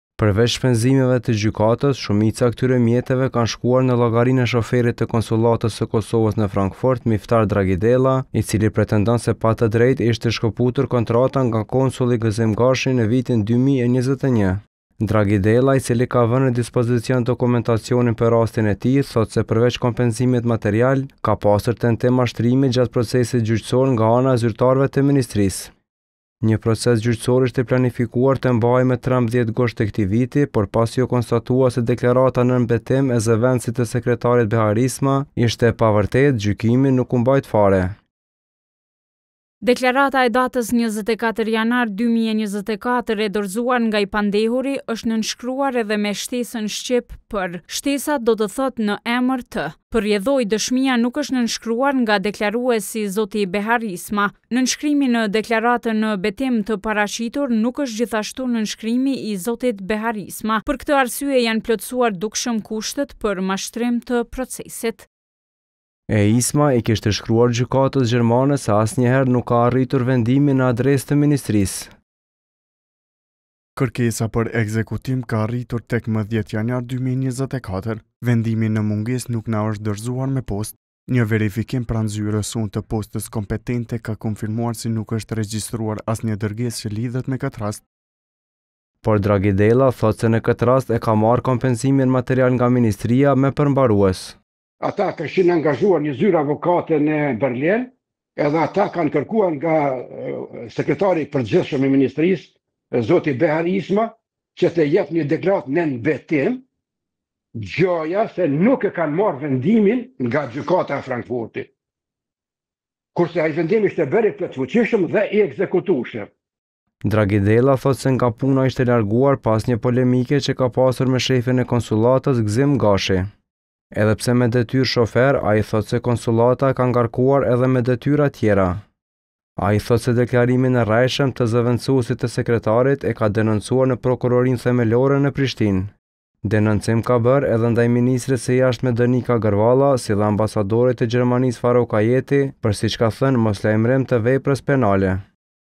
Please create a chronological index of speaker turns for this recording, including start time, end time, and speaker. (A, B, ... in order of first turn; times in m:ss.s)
0:00.2-0:25.7 A
0:26.4-0:38.0 A
0:39.6-1:05.1 B
1:06.1-1:11.9 A
1:13.8-1:27.8 C
1:29.0-1:34.4 A
1:34.8-1:46.6 D
1:47.6-1:51.7 D
1:53.2-1:56.3 D
1:57.0-2:03.3 A
2:03.9-2:08.8 A
2:09.6-2:15.9 A
2:16.4-2:25.2 A